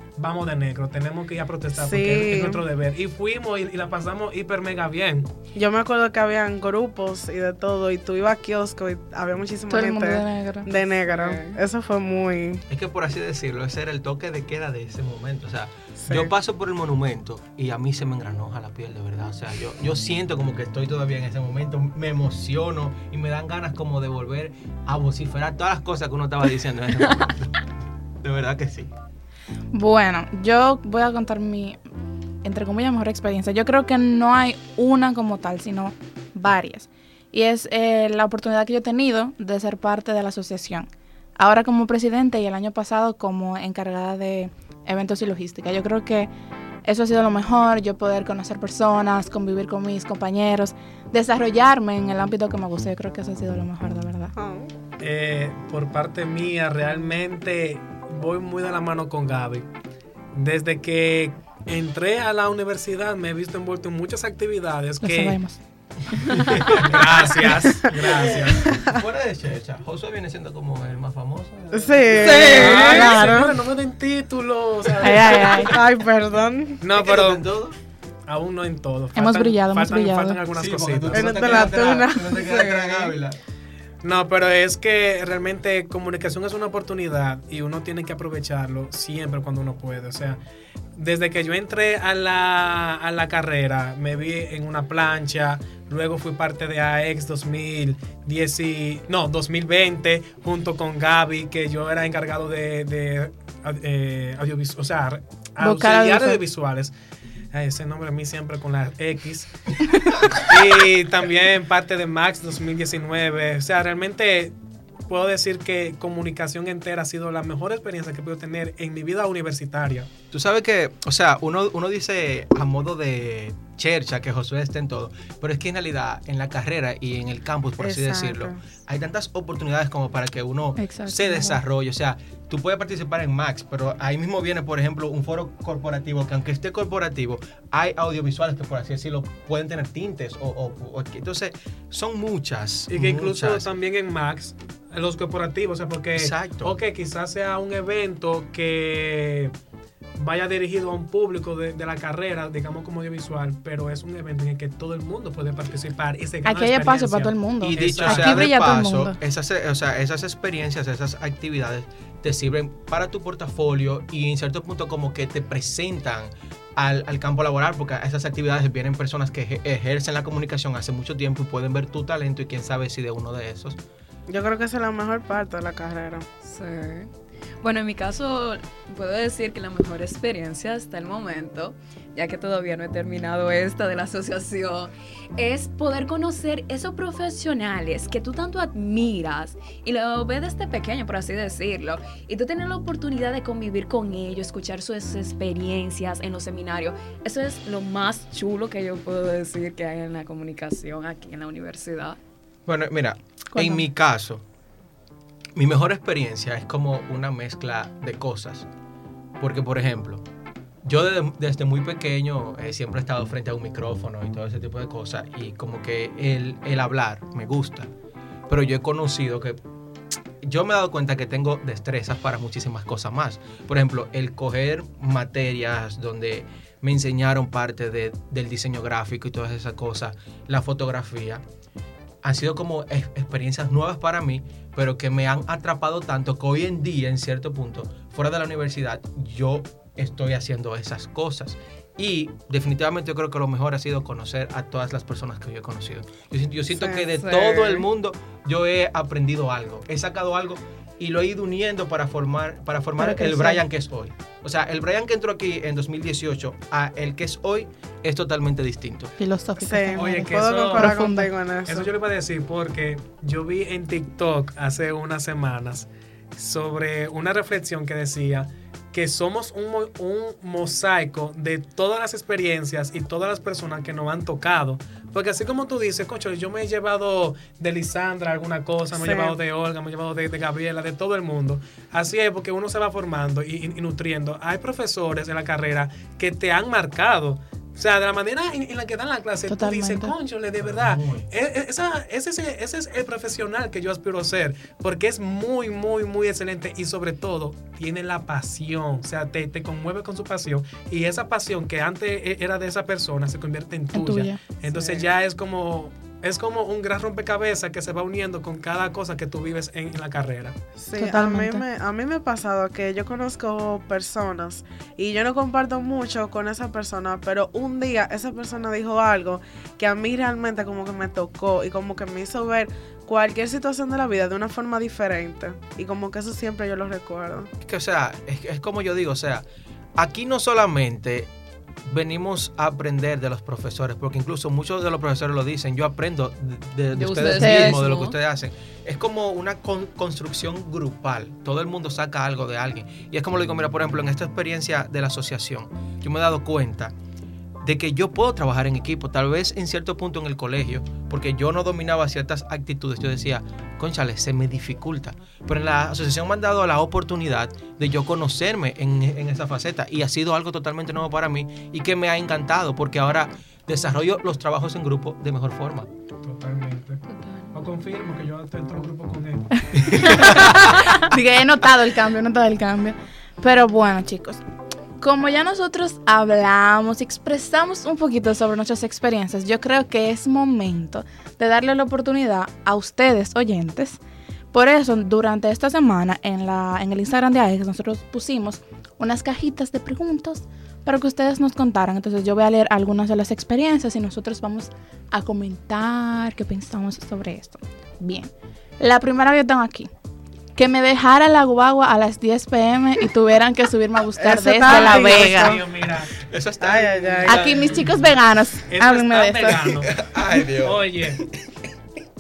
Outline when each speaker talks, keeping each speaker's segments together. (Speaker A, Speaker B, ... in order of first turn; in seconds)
Speaker A: 0.2-5.3, 55.0-59.7, 60.3-65.4, 66.7-68.8, 72.2-75.7, 76.8-77.4, 78.3-81.7, 84.0-90.4, 91.0-106.9, 107.5-114.5, 115.1-120.1, 142.9-149.5, 150.2-158.5, 259.9-261.1, 261.7-310.6, 366.2-367.0, 367.5-370.3, 404.6-406.1, 407.1-408.1, 408.7-411.3
Speaker B: 1.8-2.6, 5.5-12.6, 16.0-16.3, 54.4-54.7, 67.7-69.0, 71.7-73.6, 75.3-76.8, 81.1-82.8, 127.8-128.6, 174.3-176.2, 246.8-247.0, 259.6-261.9, 278.9-279.4, 304.7-305.1, 310.8-327.5, 404.2-405.7, 406.6-407.6
Speaker C: 9.7-10.7, 29.7-31.8, 32.4-46.3, 46.9-54.3, 65.0-65.6, 75.0-75.7, 79.2-80.4, 105.6-106.4, 130.8-131.6, 156.4-159.2, 203.5-203.9, 253.0-253.6, 259.2-261.3, 289.5-290.1, 303.9-304.4, 311.0-311.6, 337.3-337.8, 369.9-374.4, 375.0-384.0, 384.5-399.9, 400.6-405.6, 407.3-409.7
Speaker D: 11.1-11.6, 82.4-83.0, 176.4-177.1, 177.6-202.2, 247.1-247.9, 336.9-338.1, 367.1-367.5
Speaker E: 12.7-27.5, 28.2-28.9, 66.3-67.2, 68.5-73.3, 77.0-77.8, 80.5-83.4, 120.3-143.7, 146.2-146.8, 157.6-173.8, 202.7-204.4, 205.6-208.7, 209.4-210.2, 210.8-217.9, 218.5-219.6, 220.4-231.4, 232.2-259.1, 290.6-291.3, 327.6-329.4, 330.0-331.3, 331.9-346.9, 347.6-365.9, 369.9-370.5, 406.2-407.4, 409.8-411.3